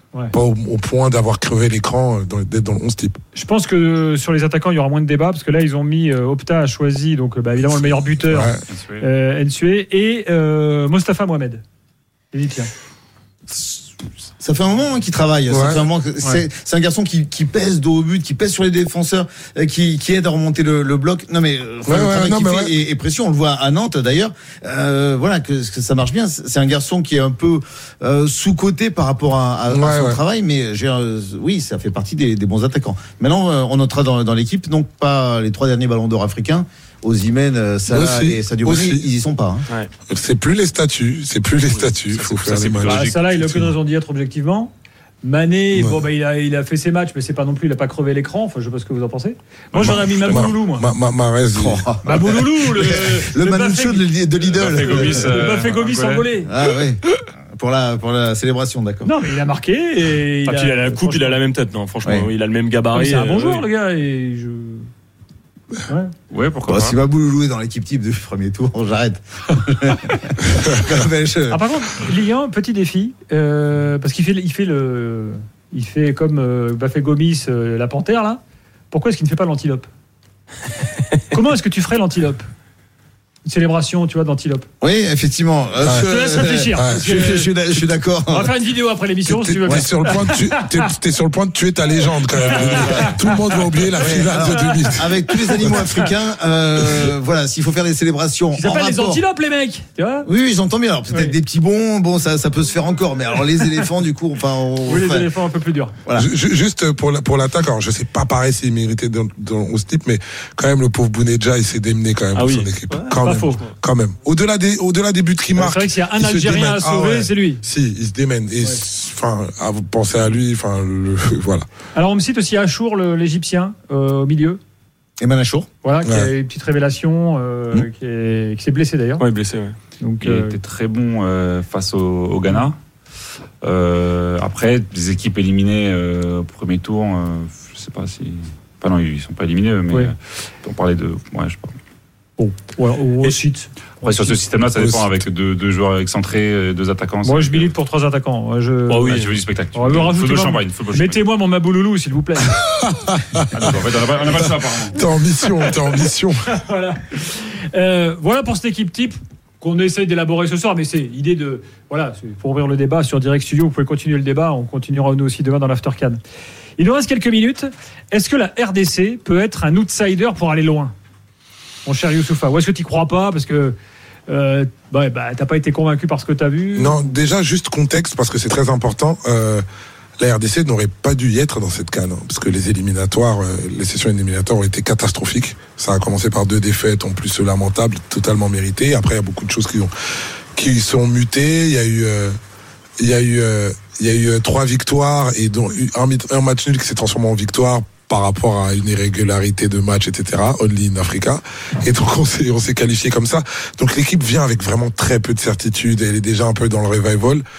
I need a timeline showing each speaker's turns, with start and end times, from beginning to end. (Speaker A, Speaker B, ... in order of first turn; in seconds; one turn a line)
Speaker A: 0.3-3.2
Speaker B: 3.3-11.6
Speaker A: 7.7-8.6
Speaker C: 8.7-9.1
Speaker B: 12.3-12.7
Speaker D: 14.4-39.7
Speaker A: 15.5-15.9
Speaker A: 21.9-22.8
Speaker A: 29.7-30.2
Speaker A: 37.9-39.1
Speaker A: 40.1-43.7
Speaker C: 42.1-43.2
Speaker B: 42.8-44.7
Speaker B: 45.2-50.9
Speaker A: 45.7-46.1
Speaker C: 49.7-50.5
Speaker A: 49.8-51.8
Speaker D: 51.5-55.4
Speaker B: 52.0-56.5
Speaker C: 54.6-56.3
Speaker D: 56.4-59.1
Speaker B: 59.0-61.4
Speaker E: 60.1-63.7
Speaker D: 62.0-62.3
Speaker B: 62.9-64.9
Speaker B: 65.9-66.1
Speaker C: 66.3-67.0
Speaker D: 66.7-71.6
Speaker B: 71.5-78.4
Speaker B: 78.9-79.9
Speaker B: 81.2-82.4
Speaker B: 83.4-84.7
Speaker D: 84.8-88.5
Speaker A: 85.8-86.1
Speaker B: 85.9-90.9
Speaker A: 86.7-87.1
Speaker A: 89.2-95.8
Speaker B: 92.3-93.4
Speaker C: 92.6-93.0
Speaker B: 94.0-95.0
Speaker D: 94.0-99.2
Speaker B: 95.5-96.1
Speaker B: 98.5-100.3
Speaker D: 100.2-105.3
Speaker B: 104.8-105.9
Speaker D: 106.0-106.3
Speaker A: 106.1-121.6
Speaker E: 112.3-113.2
Speaker B: 113.2-113.6
Speaker B: 115.5-117.6
Speaker B: 121.9-124.6
Speaker D: 125.2-125.7
Speaker B: 125.8-129.2
Speaker A: 126.0-126.3
Speaker E: 129.2-129.8
Speaker B: 130.0-130.5
Speaker C: 130.2-132.8
Speaker C: 133.6-141.7
Speaker B: 142.4-144.4
Speaker C: 144.0-147.7
Speaker A: 144.8-145.1
Speaker B: 147.2-152.6
Speaker E: 148.9-149.3
Speaker C: 149.1-151.2
Speaker C: 153.5-155.0
Speaker A: 154.9-156.5
Speaker B: 156.5-166.2
Speaker B: 166.8-170.9
Speaker B: 171.8-173.8
Speaker B: 174.3-177.0
Speaker A: 176.7-179.6
Speaker A: 180.2-189.9
Speaker A: 190.6-192.3
Speaker A: 193.0-207.4